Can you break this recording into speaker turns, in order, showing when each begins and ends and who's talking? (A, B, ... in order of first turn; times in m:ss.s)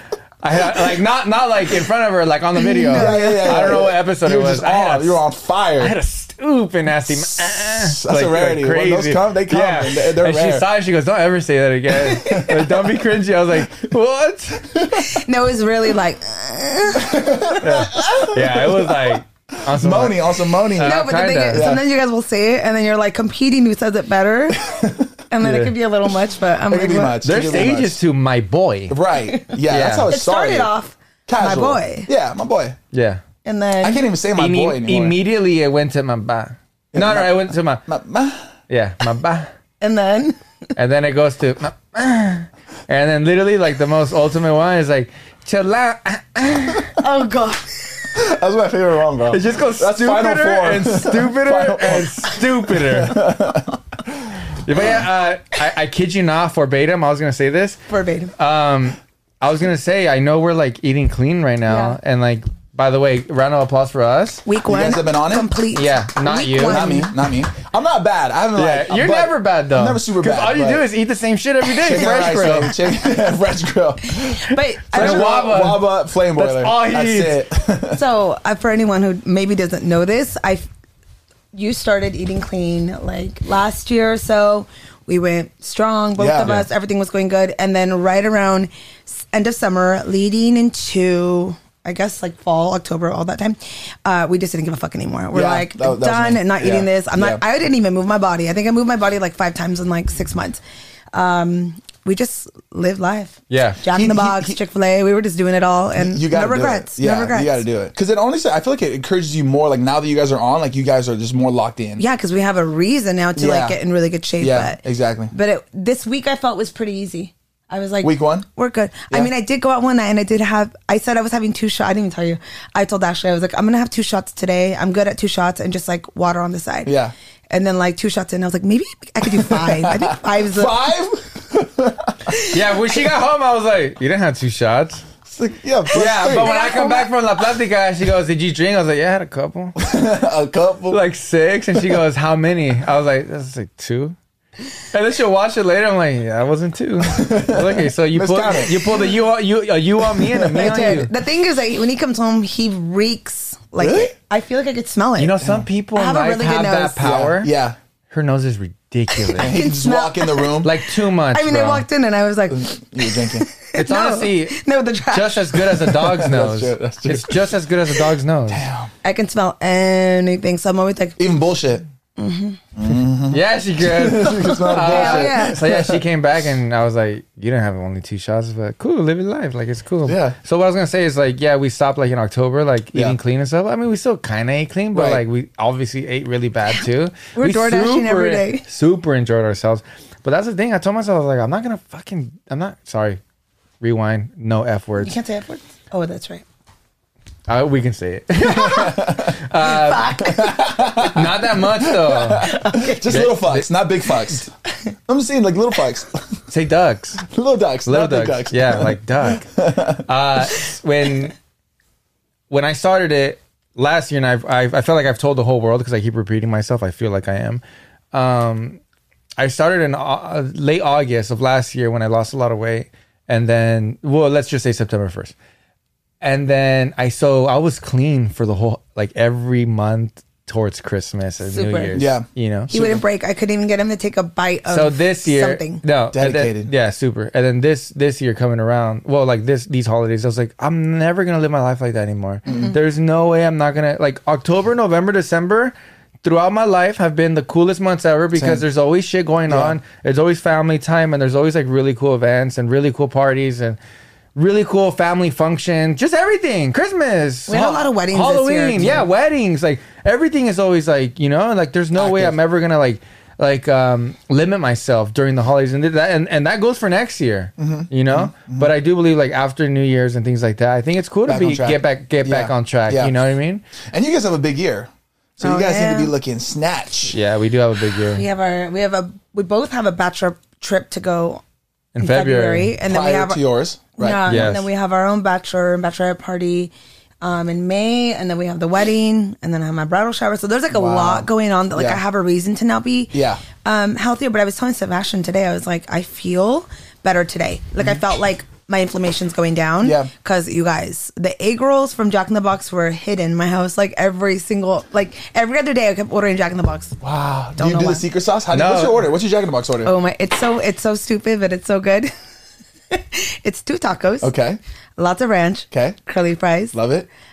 0:00.4-0:05.2 A
0:00.6-0:01.0 B
0:02.6-0:03.9 C
0:02.8-0:06.0 B
0:05.8-0:14.8 A
0:07.1-0:10.7 B
0:12.2-0:12.8 B
0:14.7-0:15.2 B
0:14.8-0:17.7 C
0:17.0-0:21.8 B
0:17.6-0:21.7 A
0:20.8-0:24.7 C
0:24.6-0:25.1 B
0:25.3-0:27.4 C
0:25.4-0:25.7 A
0:26.7-0:28.0 B
0:27.2-0:29.0 A
0:28.9-0:30.7 B
0:29.3-0:32.1 C
0:29.7-0:30.1 A
0:31.3-0:32.8 B
0:32.9-0:33.2 A
0:33.4-0:34.0 C
0:33.8-0:35.2 B
0:34.4-0:37.8 A
0:36.9-0:38.5 B
0:38.7-0:39.5 A
0:39.8-0:40.4 C
0:40.8-0:47.0 A
0:47.0-0:48.2 C
0:48.1-0:55.0 B
0:49.3-0:53.2 A
0:54.6-0:57.8 A
0:57.9-0:58.3 C
0:58.4-1:04.4 A
1:01.7-1:02.0 C
1:04.5-1:07.1 C
1:04.6-1:05.5 B
1:05.7-1:06.9 A
1:06.6-1:10.9 B
1:08.6-1:12.7 A
1:11.8-1:18.0 B
1:14.2-1:15.4 C
1:14.9-1:17.4 A
1:17.9-1:20.7 C
1:21.5-1:40.6 C
1:26.2-1:26.7 B
1:35.3-1:37.4 B
1:41.1-1:47.6 C
1:43.5-1:43.8 A
1:43.9-1:44.6 B
1:46.0-1:52.0 B
1:52.0-2:07.0 C
1:53.4-1:53.8 B
1:54.4-1:55.3 B
1:58.0-1:58.5 B
2:06.9-2:07.1 B
2:07.5-2:10.8 C
2:09.2-2:12.4 B
2:12.5-2:15.1 A
2:15.2-2:16.7 B
2:15.9-2:17.5 C
2:15.9-2:19.8 A
2:19.8-2:21.0 B
2:20.9-2:24.2 A
2:24.9-2:31.1 A
2:27.0-2:29.1 B
2:30.0-2:30.9 B
2:30.6-2:35.4 C
2:33.8-2:34.1 B
2:35.2-2:37.5 A
2:35.4-2:35.7 B
2:36.0-2:37.0 C
2:37.0-2:37.8 B
2:38.1-2:39.6 A
2:39.1-2:46.0 C
2:39.4-2:40.7 B
2:40.6-2:41.8 A
2:42.5-2:43.5 B
2:43.8-2:44.6 A
2:45.1-2:48.6 A
2:45.9-2:47.6 B
2:48.5-2:48.9 B
2:49.0-2:51.2 C
2:51.2-2:51.8 B
2:52.2-2:52.6 C
2:52.8-2:56.0 B
2:53.3-3:13.2 A
2:54.4-2:55.6 C
3:00.1-3:00.4 B
3:04.9-3:05.2 B
3:07.4-3:08.6 C
3:13.8-3:15.2 A
3:15.0-3:16.4 C
3:17.5-3:20.2 A
3:18.5-3:20.9 C
3:18.6-3:19.4 B
3:20.2-3:24.5 B
3:21.0-3:22.5 A
3:22.4-3:23.2 C
3:23.0-3:23.7 A
3:25.1-3:26.4 B
3:26.5-3:27.2 A
3:27.2-3:30.1 B
3:27.9-3:31.4 A
3:32.5-3:38.8 A
3:39.4-3:45.4 A
3:46.2-3:52.7 A
3:51.5-3:52.0 C
3:52.0-3:53.0 B
3:52.7-3:55.8 C
3:54.7-4:13.8 A
3:56.1-3:56.7 B
4:02.5-4:02.8 B
4:02.5-4:02.8 C
4:08.4-4:08.6 B
4:09.5-4:09.8 B
4:14.4-4:33.6 A
4:17.5-4:19.0 C
4:18.8-4:19.0 B
4:22.0-4:22.4 B
4:27.6-4:28.7 B
4:31.3-4:33.2 B
4:33.9-4:37.2 B
4:35.4-4:36.1 C
4:37.1-4:38.2 A
4:38.1-4:41.4 C
4:42.0-4:42.7 A
4:42.0-4:43.4 C
4:42.8-4:44.6 B
4:43.9-5:07.0 C
4:44.3-4:44.7 A
4:50.7-4:52.0 B
4:53.1-4:53.4 B
4:59.8-5:00.1 B
5:07.0-5:09.9 B
5:07.6-5:08.0 C
5:08.5-5:09.1 A
5:09.8-5:12.1 C
5:12.9-5:14.3 C
5:14.2-5:14.6 B
5:15.0-5:16.8 C
5:15.7-5:16.0 B
5:16.7-5:17.1 B